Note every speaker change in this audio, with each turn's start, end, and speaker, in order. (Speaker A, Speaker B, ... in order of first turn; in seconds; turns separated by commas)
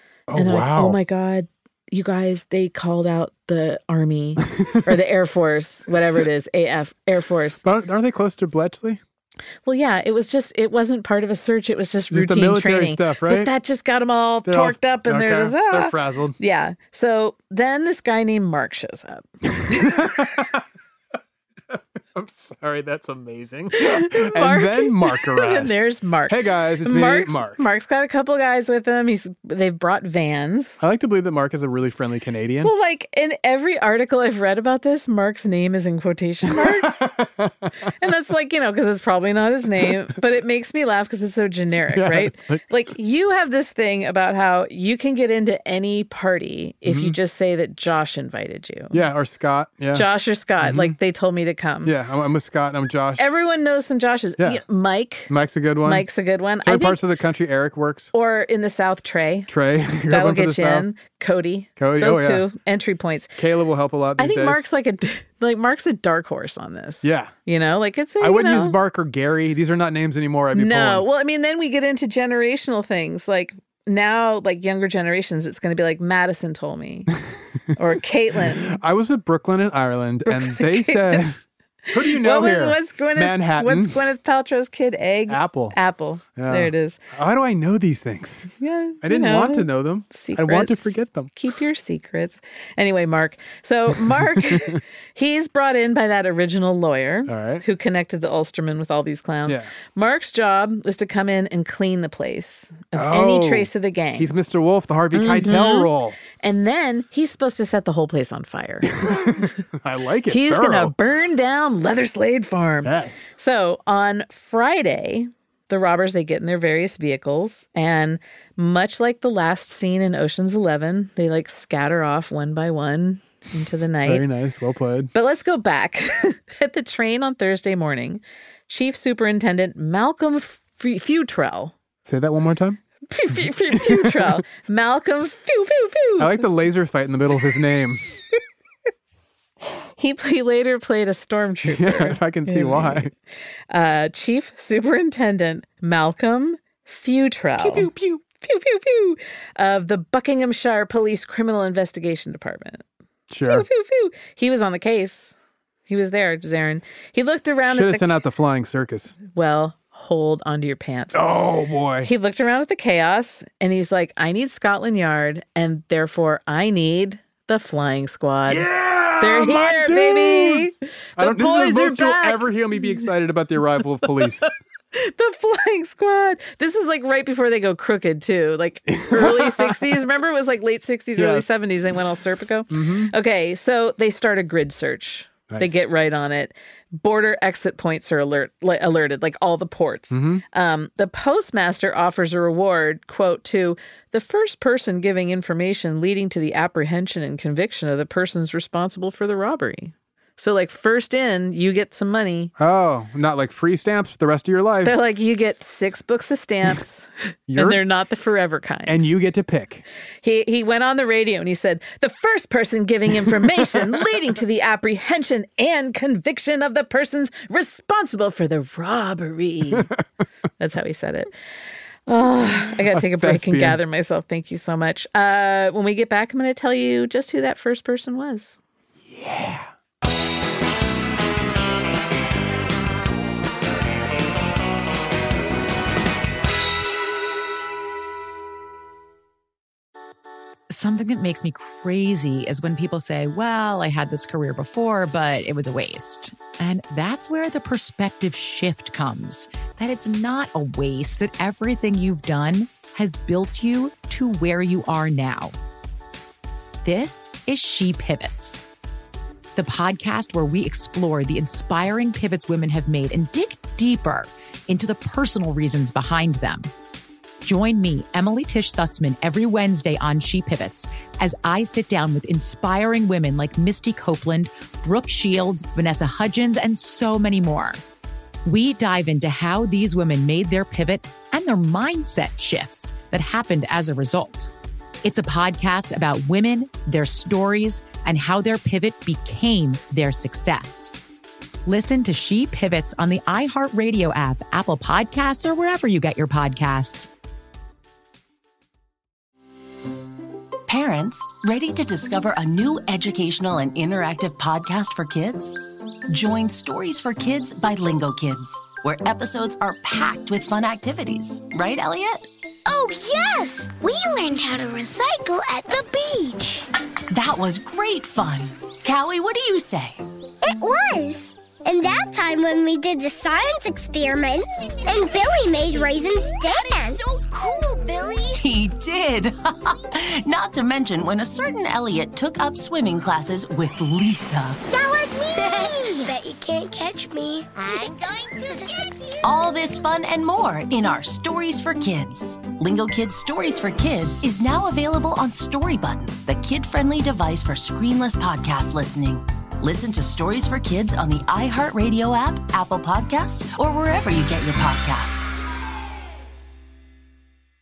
Speaker A: 0.3-1.0, Speaker B: 0.3-7.6, Speaker A: 7.6-9.0, Speaker B: 9.7-20.0, Speaker A: 12.1-13.5, Speaker A: 14.4-16.4, Speaker A: 19.6-20.6, Speaker A: 21.7-27.6, Speaker B: 23.7-30.8, Speaker A: 30.8-32.7, Speaker B: 32.6-37.0, Speaker A: 36.5-37.7, Speaker B: 38.0-49.0, Speaker A: 41.9-42.6, Speaker A: 46.9-47.2, Speaker A: 48.9-50.0, Speaker B: 49.9-51.9, Speaker A: 50.6-50.9, Speaker A: 51.8-53.2, Speaker B: 53.2-55.3, Speaker A: 55.3-56.0, Speaker B: 55.8-57.0, Speaker A: 56.6-58.1, Speaker B: 58.1-59.5, Speaker A: 59.5-60.9, Speaker B: 60.1-63.3, Speaker A: 61.8-62.4, Speaker A: 63.4-64.6, Speaker B: 64.2-68.8, Speaker A: 67.0-67.3, Speaker A: 68.2-71.0, Speaker B: 70.5-77.1, Speaker B: 77.8-78.7, Speaker A: 78.5-81.3, Speaker B: 80.3-81.2, Speaker A: 81.9-84.0, Speaker B: 82.0-87.0, Speaker A: 85.3-85.8, Speaker A: 86.3-88.5, Speaker B: 88.6-104.3, Speaker A: 89.0-91.3, Speaker A: 94.5-94.8, Speaker A: 97.3-97.6, Speaker A: 99.5-99.7, Speaker A: 102.9-106.2, Speaker B: 105.1-109.5, Speaker A: 108.9-110.9, Speaker B: 110.3-124.3, Speaker A: 112.8-113.3, Speaker A: 124.0-125.1, Speaker B: 125.1-131.7, Speaker A: 132.0-132.8, Speaker B: 133.1-136.4, Speaker A: 133.7-134.4, Speaker A: 136.2-138.0, Speaker B: 140.0-143.1, Speaker A: 141.7-143.1, Speaker B: 143.7-152.8, Speaker A: 147.6-148.2, Speaker A: 153.3-153.7, Speaker B: 153.4-155.3, Speaker B: 155.9-158.2, Speaker A: 157.7-159.1, Speaker B: 159.2-161.2, Speaker A: 161.1-162.1, Speaker B: 162.0-168.7, Speaker A: 168.5-174.5, Speaker B: 169.2-173.1, Speaker B: 174.9-202.5, Speaker A: 178.9-179.8, Speaker A: 181.2-181.5, Speaker A: 182.7-183.1, Speaker A: 185.5-185.8, Speaker A: 190.1-190.4, Speaker A: 202.6-204.9, Speaker B: 204.8-209.0, Speaker A: 207.5-207.8, Speaker A: 208.9-209.8, Speaker B: 210.2-219.9, Speaker A: 219.7-220.0, Speaker B: 220.6-221.3, Speaker B: 222.1-228.6, Speaker A: 222.9-223.8, Speaker A: 229.1-229.7, Speaker C: 240.7-255.6, Speaker C: 256.8-258.6, Speaker C: 259.6-266.7, Speaker C: 267.4-277.8, Speaker C: 278.4-284.5, Speaker C: 285.0-290.9, Speaker C: 291.6-297.1, Speaker D: 300.7-312.3, Speaker E: 312.6-316.7, Speaker D: 317.1-320.0, Speaker E: 320.4-327.3, Speaker D: 326.6-334.6, Speaker E: 334.7-339.1, Speaker D: 335.4-336.1, Speaker D: 339.2-355.4